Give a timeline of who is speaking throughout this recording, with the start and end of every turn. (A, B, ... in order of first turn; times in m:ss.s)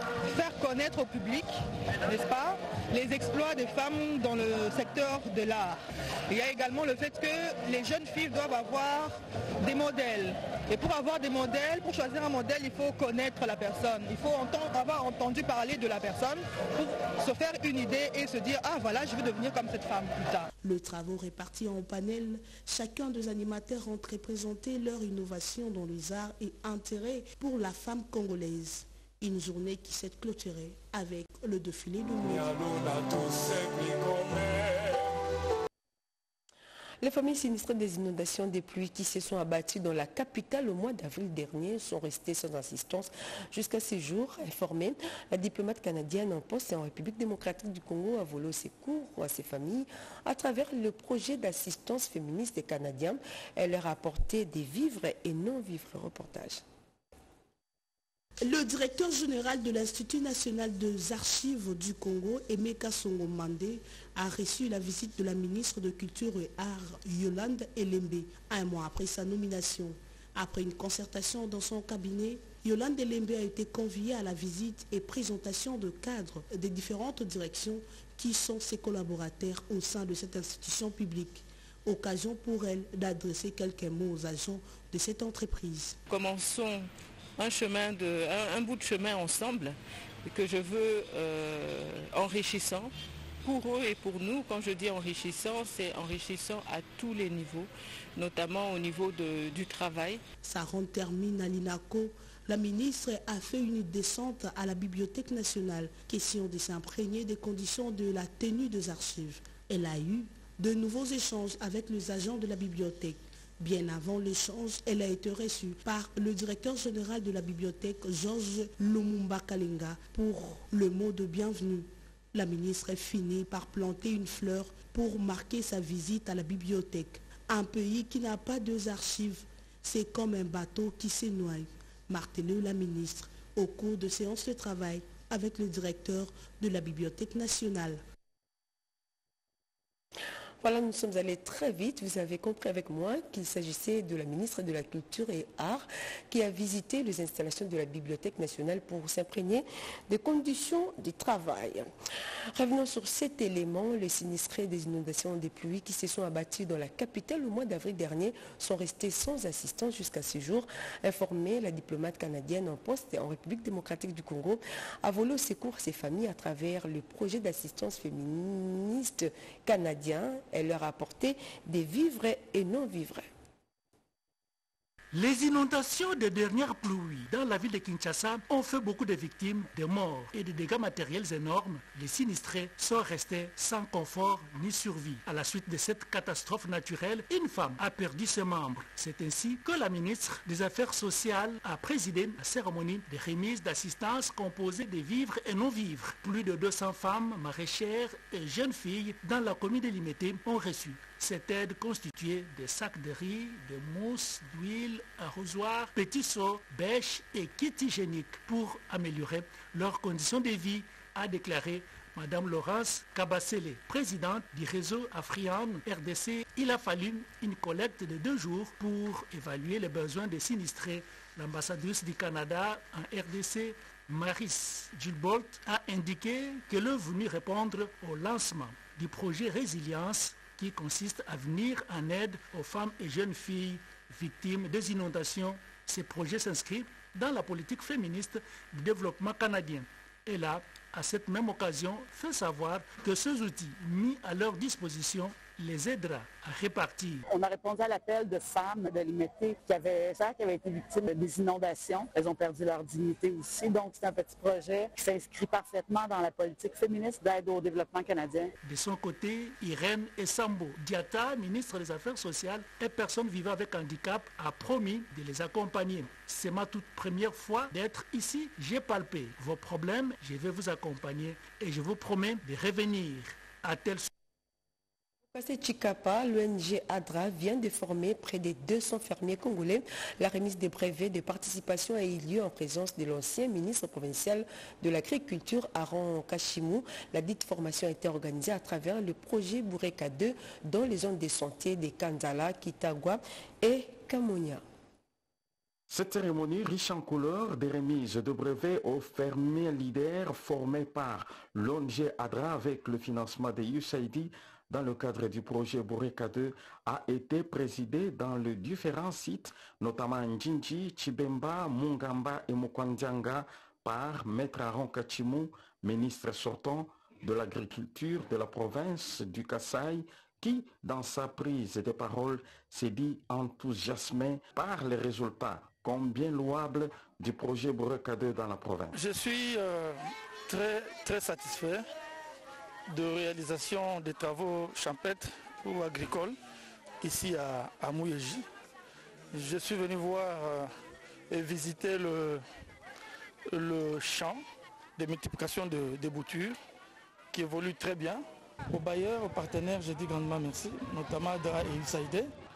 0:00.3-0:20.5 A
0:20.6-0:32.6 B
0:37.0-0:56.6 C
0:58.4-1:26.0 B
1:26.1-1:32.9 D
1:33.4-1:40.2 D
1:40.4-2:18.0 B
2:20.6-2:31.9 C
2:32.6-2:53.3 C
2:55.1-4:07.2 E
4:07.3-4:18.5 F
4:18.6-4:34.1 E
4:35.3-4:54.6 C
4:55.9-5:29.0 G
5:29.0-5:31.8 H
5:32.9-5:36.4 H
5:37.0-5:38.4 H
5:39.3-5:40.7 H
5:41.3-5:42.4 H
5:43.5-5:44.4 H
5:45.0-5:46.6 H
5:47.3-5:52.3 H